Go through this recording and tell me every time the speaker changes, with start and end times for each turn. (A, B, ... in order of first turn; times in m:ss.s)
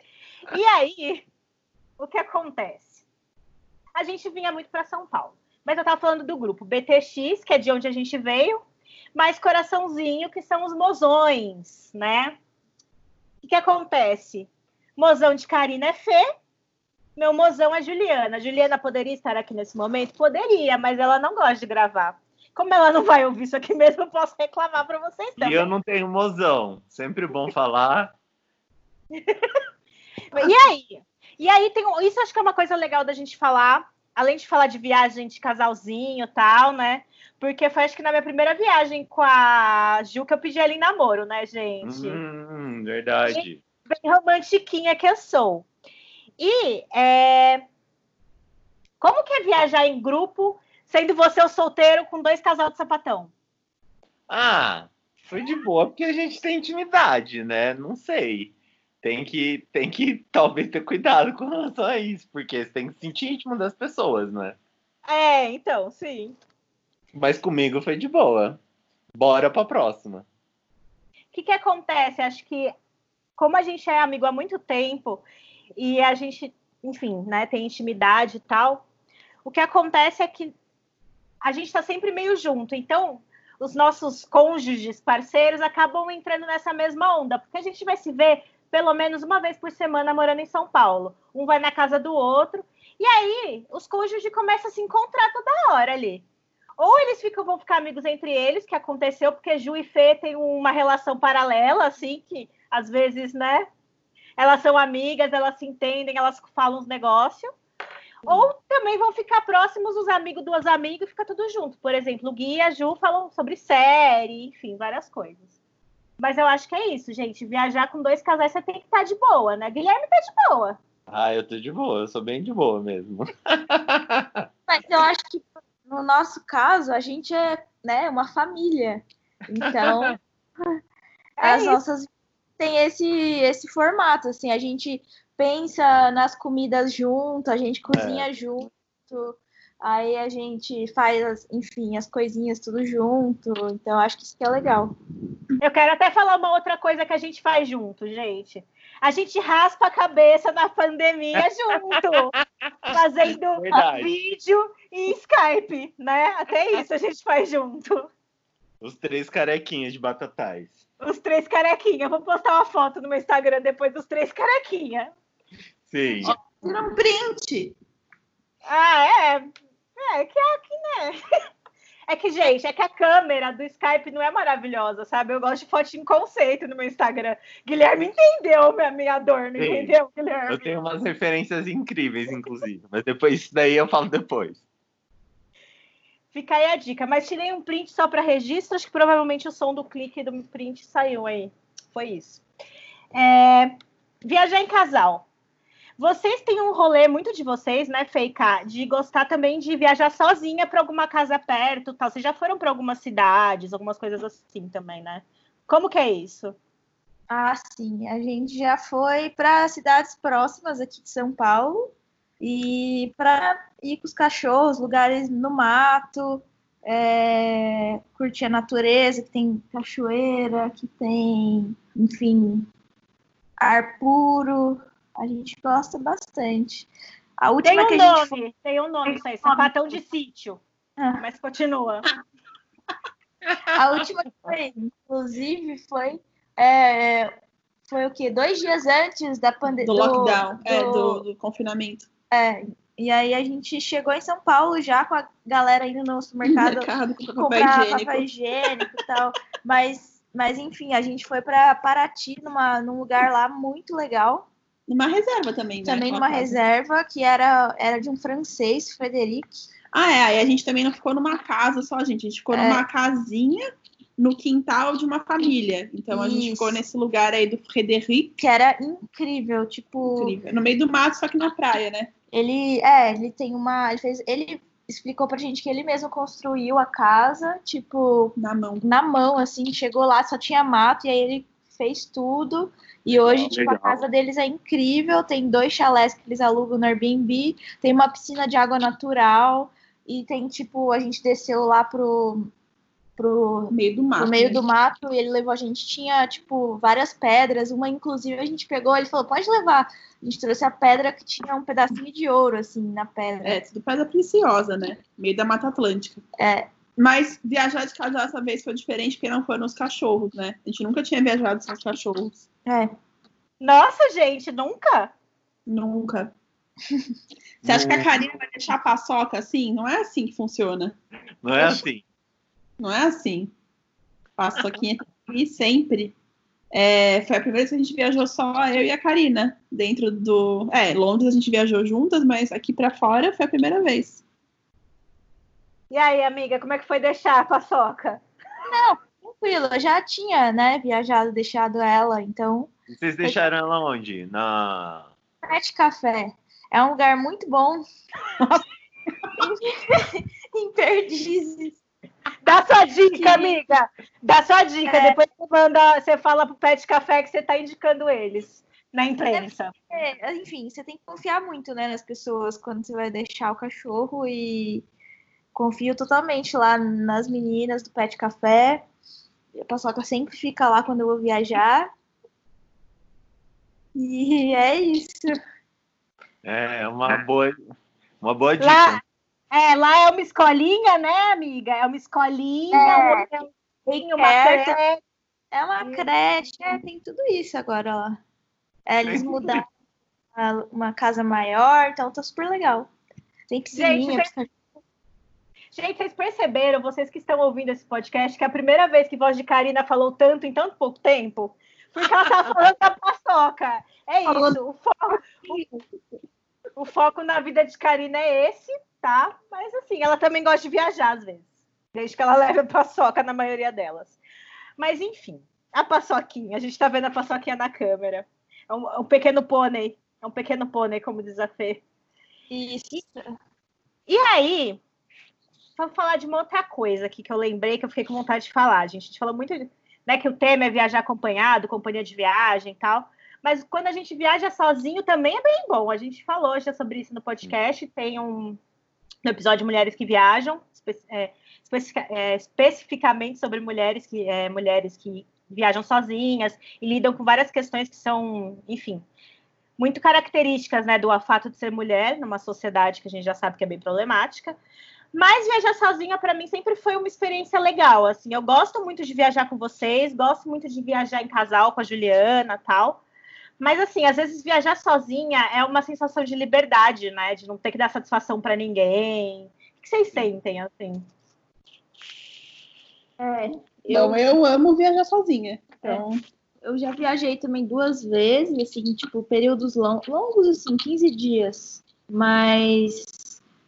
0:00.5-0:01.2 A
0:02.0-0:03.0 A
0:03.9-0:08.6 A
0:09.1-0:12.4 A
0:13.4-0:16.2 A
0:17.2-0:25.7 A
0:25.4-0:28.1 B
0:29.1-0:29.6 A
0:30.3-0:42.2 A
0:41.8-0:43.6 B
0:43.3-0:45.6 A
0:46.4-0:47.6 A
0:49.0-0:53.3 A
0:54.3-1:04.6 B
1:05.1-1:06.4 A
1:07.1-1:08.6 B
1:09.1-1:10.2 B
1:11.3-1:12.7 A
1:13.4-1:15.2 A
1:15.8-1:18.8 A
1:19.4-1:20.5 A
1:21.4-1:36.2 A
1:36.8-1:43.7 A
1:44.4-1:47.5 A
1:48.2-1:55.4 A
1:56.2-2:00.8 A
2:01.1-2:04.4 B
2:04.7-2:10.2 C
2:09.8-2:10.2 B
2:11.4-2:11.8 A
2:11.4-2:24.9 C
2:17.9-2:18.3 B
2:25.6-2:32.3 A
2:32.9-2:38.1 A
2:33.5-2:34.1 B
2:38.8-2:40.8 B
2:41.0-2:45.1 A
2:45.9-2:46.3 B
2:46.2-2:47.8 D
2:48.6-2:51.2 A
2:52.1-3:00.7 A
2:59.6-2:59.9 B
3:00.5-3:04.6 B
3:06.3-3:12.4 A
3:13.1-3:15.2 A
3:16.0-3:26.5 A
3:27.3-3:42.7 C
3:43.6-3:46.9 C
3:47.4-3:48.4 C
3:47.6-3:50.6 A
3:51.0-3:51.2 C
3:51.2-3:52.0 A
3:53.7-3:57.3 C
3:57.9-4:01.2 C
3:59.8-4:02.1 D
4:02.3-4:14.5 C
4:06.4-4:08.3 D
4:14.9-4:16.5 D
4:15.8-4:19.6 C
4:19.9-4:23.6 D
4:22.5-4:22.8 C
4:24.2-4:28.4 D
4:26.1-4:26.8 C
4:28.4-4:30.4 C
4:30.1-4:32.1 D
4:32.3-4:52.5 C
4:38.4-4:38.8 D
4:43.1-4:44.0 B
4:53.2-5:03.6 C
4:53.7-4:54.6 D
5:03.4-5:06.2 D
5:06.4-5:06.7 C
5:07.0-5:12.4 D
5:12.6-5:12.9 C
5:13.6-5:15.1 A
5:15.7-5:16.3 D
5:17.6-5:21.0 D
5:17.6-5:18.1 B
5:21.4-5:22.0 B
5:22.8-5:23.5 D
5:24.4-5:26.1 D
5:26.7-5:34.2 D
5:35.9-5:38.2 A
5:38.6-5:42.7 C
5:42.9-5:45.1 B
5:45.4-5:47.8 C
5:49.4-5:51.8 C
5:52.4-5:59.7 A
5:53.1-5:53.6 C
5:54.8-5:55.2 C
5:59.3-6:04.9 C
6:05.5-6:08.8 C
6:09.5-6:11.9 C
6:13.9-6:15.3 C
6:16.4-6:17.6 B
6:18.2-6:19.0 B
6:18.6-6:19.0 A
6:19.5-6:25.0 A
6:22.7-6:24.8 C
6:25.5-6:28.2 C
6:25.8-6:26.1 A
6:28.9-6:29.6 C
6:29.0-6:29.6 B
6:30.3-6:32.9 C
6:33.5-6:34.6 C
6:33.7-6:34.3 A
6:35.7-6:45.6 A
6:44.2-6:44.6 C
6:45.5-6:45.7 C
6:46.8-6:54.2 A
6:54.8-7:01.8 A
7:02.5-7:03.2 C
7:04.1-7:04.8 A
7:05.8-7:18.6 A
7:19.2-7:29.0 A
7:29.8-7:34.6 A
7:35.1-7:43.0 A
7:43.6-7:51.0 A
7:53.2-7:54.3 C
7:53.9-7:56.2 D
7:56.6-8:03.4 C